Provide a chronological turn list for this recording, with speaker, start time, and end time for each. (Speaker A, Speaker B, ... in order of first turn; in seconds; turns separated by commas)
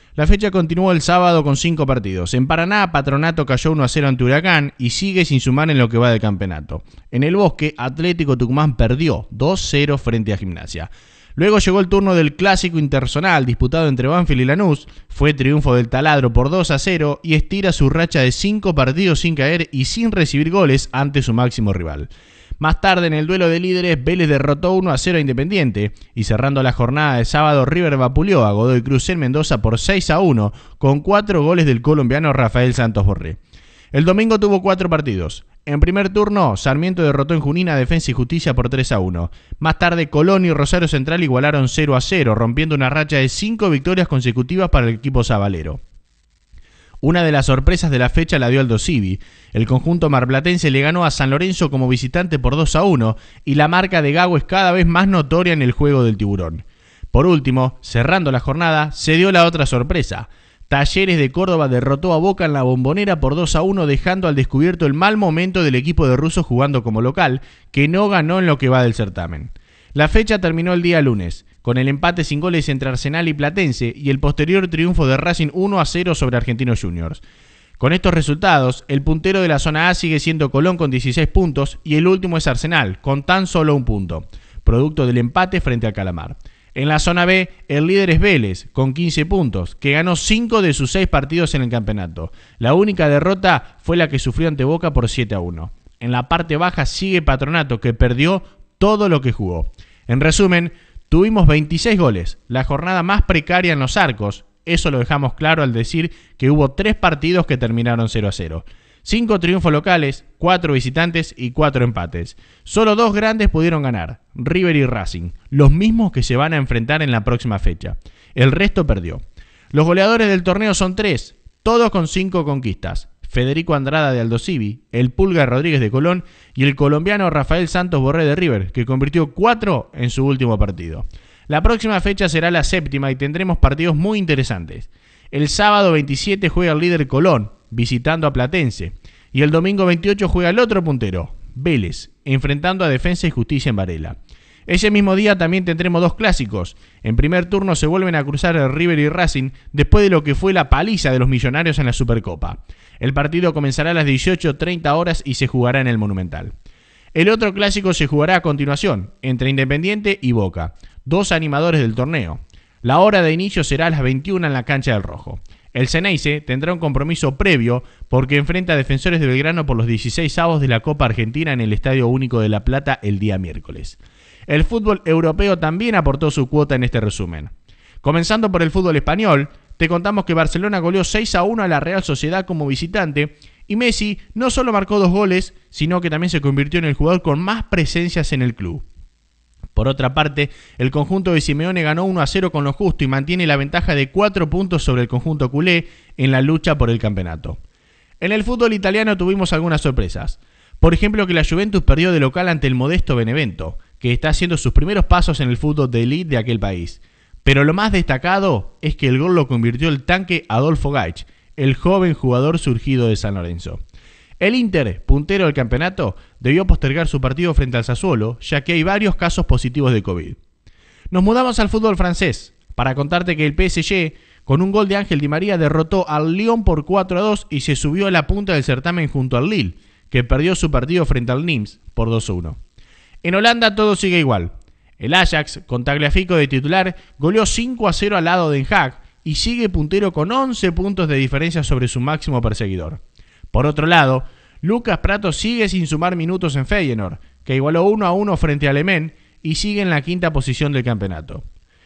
Speaker A: 0.2-33.4, Speaker A: 33.9-45.8, Speaker A: 47.0-77.2, Speaker A: 77.8-119.2, Speaker A: 119.7-156.5, Speaker A: 157.1-188.8, Speaker A: 189.8-197.6, Speaker A: 198.2-213.8, Speaker A: 214.4-220.4, Speaker A: 221.1-232.6, Speaker A: 233.2-243.0, Speaker A: 243.5-251.4